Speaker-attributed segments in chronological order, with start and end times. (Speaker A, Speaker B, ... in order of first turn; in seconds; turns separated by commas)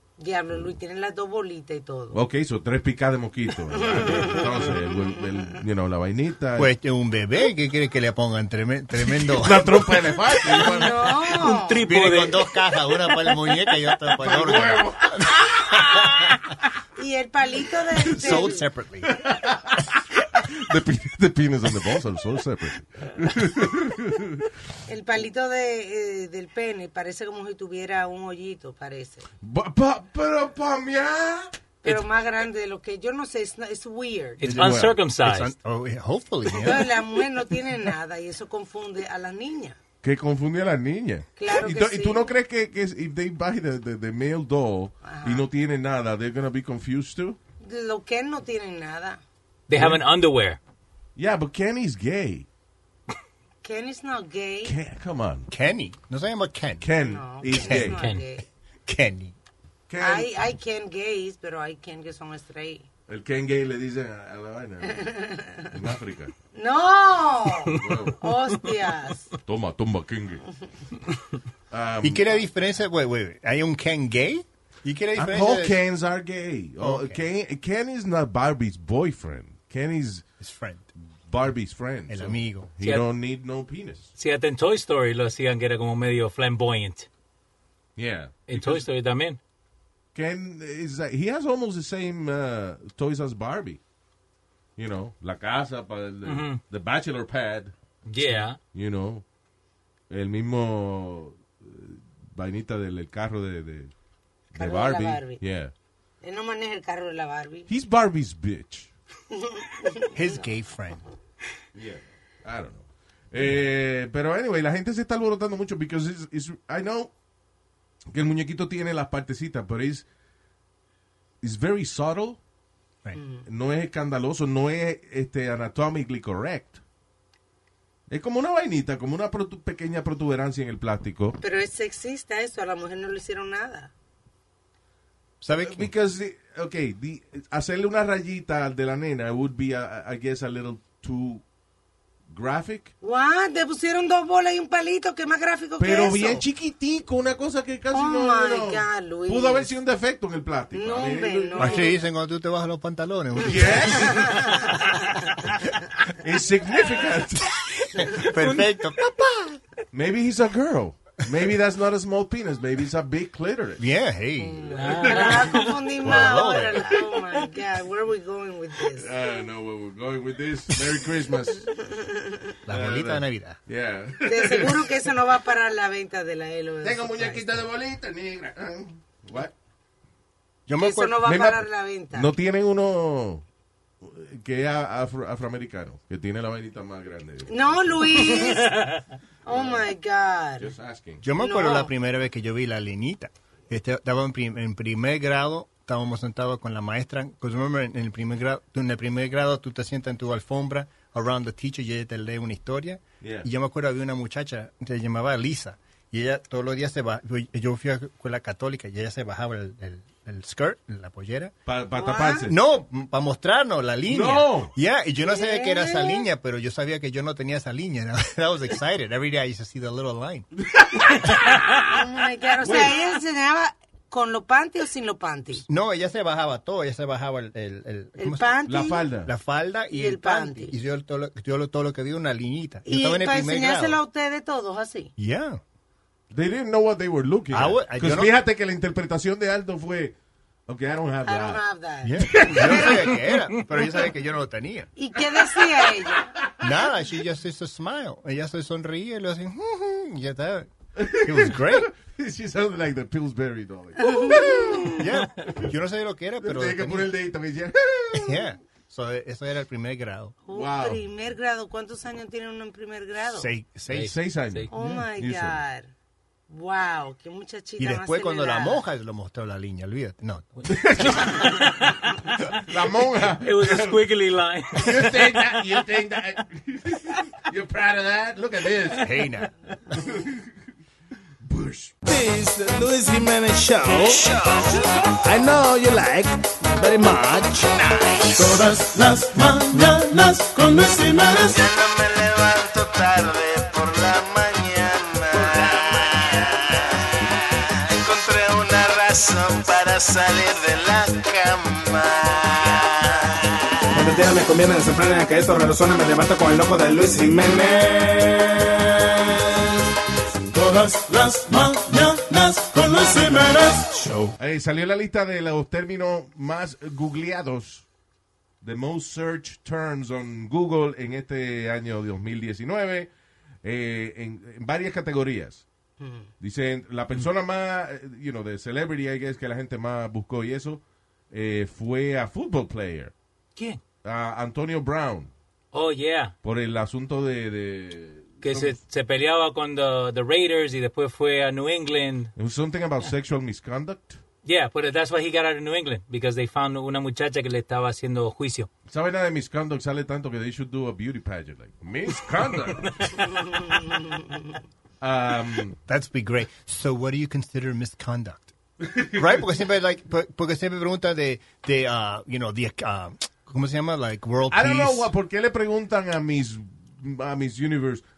Speaker A: 0.2-2.2, Speaker B: 2.1-6.7, Speaker A: 3.8-4.7, Speaker C: 6.5-10.1, Speaker B: 9.1-11.2, Speaker A: 10.6-11.8, Speaker D: 11.4-12.4, Speaker C: 11.8-15.9, Speaker B: 14.2-15.2, Speaker A: 16.9-18.6, Speaker C: 18.0-19.2, Speaker B: 19.2-24.5, Speaker A: 24.9-29.2, Speaker B: 29.4-31.5, Speaker A: 31.8-34.5, Speaker D: 34.4-35.5, Speaker B: 34.5-35.0, Speaker C: 34.5-37.0, Speaker A: 36.6-39.8, Speaker B: 40.0-47.4, Speaker A: 41.4-42.3, Speaker A: 45.0-45.5, Speaker A: 47.6-49.2, Speaker D: 49.7-50.6, Speaker B: 49.7-50.0, Speaker B: 51.1-52.5, Speaker A: 53.6-54.7, Speaker B: 54.6-55.5, Speaker C: 55.5-56.9, Speaker B: 56.8-58.0, Speaker A: 57.0-58.4, Speaker C: 57.4-58.0, Speaker C: 58.9-59.3, Speaker B: 59.9-60.3, Speaker A: 60.0-62.9, Speaker B: 63.1-65.1, Speaker A: 64.9-65.7, Speaker B: 65.7-66.3, Speaker A: 66.5-69.3, Speaker B: 67.7-68.2, Speaker B: 69.4-70.4, Speaker B: 71.7-72.3, Speaker C: 72.0-75.8, Speaker B: 75.2-80.2, Speaker C: 76.8-77.2, Speaker C: 80.4-80.9, Speaker B: 81.2-84.1, Speaker C: 82.1-82.7, Speaker D: 82.8-83.1, Speaker D: 84.2-87.1, Speaker B: 88.0-88.8, Speaker D: 88.5-89.4, Speaker B: 90.1-93.8, Speaker B: 94.8-97.7, Speaker D: 96.2-96.6, Speaker D: 98.0-98.6, Speaker B: 98.7-99.2, Speaker B: 100.1-103.9, Speaker B: 104.5-105.7, Speaker A: 104.5-105.4, Speaker A: 106.2-107.7, Speaker B: 107.7-108.9, Speaker A: 109.4-110.2, Speaker C: 110.1-111.0, Speaker B: 111.7-117.1, Speaker B: 118.1-120.0, Speaker B: 121.4-122.4, Speaker A: 123.1-123.5, Speaker B: 123.5-126.8, Speaker B: 128.1-131.4, Speaker A: 131.4-133.9, Speaker C: 135.4-135.9, Speaker B: 135.6-141.4, Speaker B: 142.3-142.9, Speaker A: 143.0-146.4, Speaker B: 145.8-151.8, Speaker A: 147.9-149.7, Speaker A: 150.7-152.0, Speaker C: 151.6-154.4, Speaker B: 153.4-154.4, Speaker A: 153.9-154.9, Speaker B: 156.2-158.6, Speaker C: 158.0-159.6, Speaker B: 159.9-163.8, Speaker C: 163.8-164.9, Speaker A: 164.4-169.1, Speaker D: 164.8-165.7, Speaker B: 165.0-165.3, Speaker C: 166.0-166.9, Speaker B: 168.9-171.7, Speaker A: 171.9-172.4, Speaker C: 172.7-173.6, Speaker B: 172.7-174.9, Speaker A: 174.2-177.6, Speaker B: 176.8-179.5, Speaker C: 180.7-181.3, Speaker A: 180.8-182.3, Speaker B: 181.2-183.4, Speaker B: 184.0-188.2, Speaker A: 187.5-188.9, Speaker A: 189.4-190.7, Speaker B: 189.4-189.9, Speaker B: 190.6-191.2, Speaker C: 191.2-211.5, Speaker A: 191.4-191.9, Speaker B: 203.2-203.5, Speaker B: 211.7-212.6, Speaker A: 211.9-212.5, Speaker C: 212.4-220.5, Speaker B: 214.1-214.7, Speaker A: 215.2-216.3, Speaker B: 220.7-221.8, Speaker A: 221.8-225.6, Speaker B: 222.6-222.9, Speaker C: 225.5-228.6, Speaker A: 228.2-229.0, Speaker B: 228.7-229.3, Speaker C: 229.2-234.0, Speaker A: 229.9-230.8, Speaker A: 232.8-235.1, Speaker C: 235.2-235.6, Speaker B: 236.3-240.2, Speaker C: 237.5-238.3, Speaker B: 240.7-241.6, Speaker A: 241.2-243.1, Speaker C: 242.0-244.9, Speaker B: 242.3-243.1, Speaker A: 244.9-246.3, Speaker C: 246.6-251.9, Speaker B: 251.0-255.7, Speaker A: 254.0-254.9, Speaker C: 254.9-257.1, Speaker B: 256.4-258.5, Speaker C: 258.1-260.4, Speaker A: 260.4-263.5, Speaker B: 260.5-261.0, Speaker C: 263.3-264.2, Speaker D: 263.9-264.7, Speaker B: 264.0-265.6, Speaker A: 264.7-265.9, Speaker C: 264.7-265.0, Speaker A: 266.5-268.8, Speaker C: 267.8-270.8, Speaker B: 270.7-271.9, Speaker D: 271.2-272.3, Speaker B: 272.5-274.0, Speaker D: 273.4-275.5, Speaker B: 274.7-279.2, Speaker C: 279.0-279.5, Speaker B: 279.9-280.4, Speaker B: 281.4-282.0, Speaker E: 282.1-284.3, Speaker F: 284.1-284.7, Speaker E: 285.2-291.6, Speaker F: 291.4-297.3, Speaker F: 297.9-304.1, Speaker E: 303.9-309.8, Speaker E: 310.5-314.3, Speaker B: 314.4-317.9, Speaker B: 318.6-323.1, Speaker B: 323.6-325.6, Speaker A: 326.0-326.3, Speaker B: 326.4-333.1, Speaker B: 334.0-335.3, Speaker D: 335.7-336.3, Speaker B: 336.4-338.8, Speaker D: 338.4-342.3, Speaker B: 342.4-344.2, Speaker D: 344.4-348.7, Speaker B: 348.9-353.7, Speaker A: 353.5-354.3, Speaker B: 355.0-355.8, Speaker C: 355.9-358.5, Speaker B: 358.8-359.3, Speaker C: 359.1-365.1, Speaker B: 364.5-368.0